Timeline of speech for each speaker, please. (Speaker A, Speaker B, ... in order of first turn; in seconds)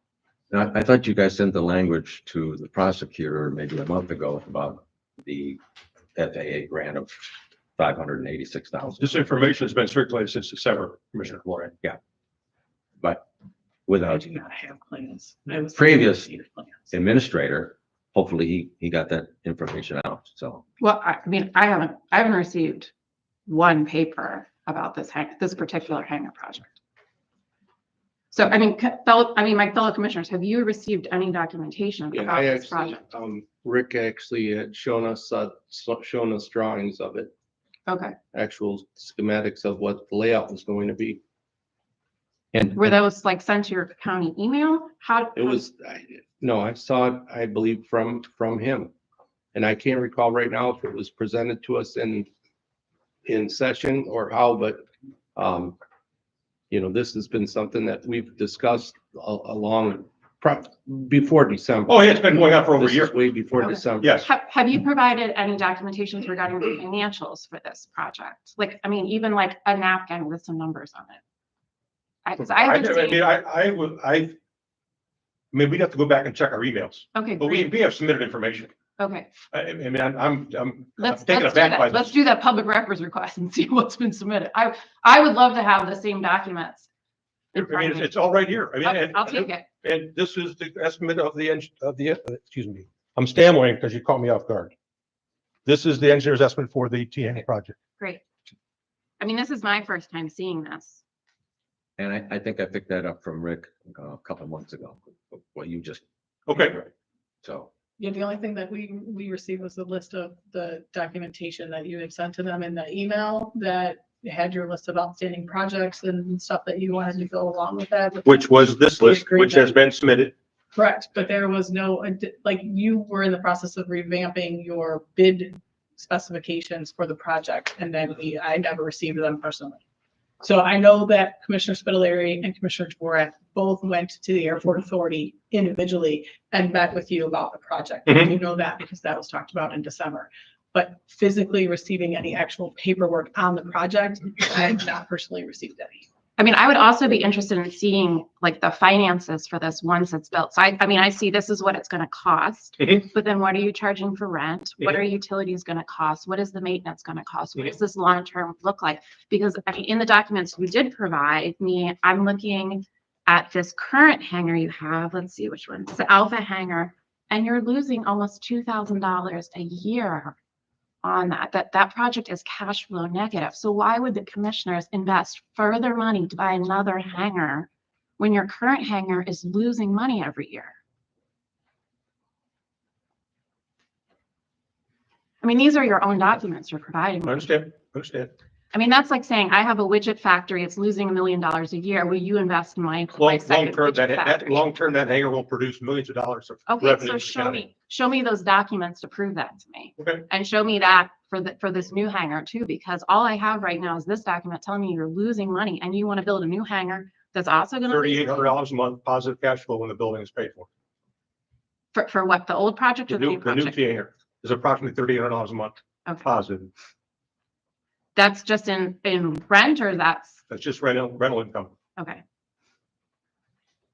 Speaker A: 0.5-5.6, 6.2-9.1, 13.9-14.3, 15.7-16.3, 16.9-20.6, 102.0-106.9, 107.4-107.7
Speaker B: 9.0-11.8, 61.9-63.1, 64.0-64.3, 72.4-74.4, 75.5-78.7, 79.5-82.1, 87.6-94.7, 95.7-97.8, 106.5-106.8, 118.2-120.3, 187.2-188.3, 193.2-197.7, 200.0-200.2, 207.8-210.7, 213.1-216.7, 220.5-221.7
Speaker C: 14.1-16.8, 108.0-119.7, 120.8-129.8, 130.4-146.1
Speaker D: 20.8-22.9, 23.5-26.7, 28.3-33.0, 37.9-38.2, 42.8-45.6, 63.6-71.2, 72.2-73.3, 77.1-77.7, 79.0-79.3, 81.0-86.9, 87.5-88.1, 88.8-89.7, 99.2-101.0, 146.4-170.4, 171.0-180.7, 185.4-187.6, 188.7-194.6, 196.7-208.6, 211.9-213.8, 218.2-220.4, 222.0-222.2
Speaker E: 32.1-37.3, 38.3-41.2, 42.5-42.9, 45.4-48.9, 49.5-52.3, 53.2-54.8, 55.4-55.8, 56.7-64.2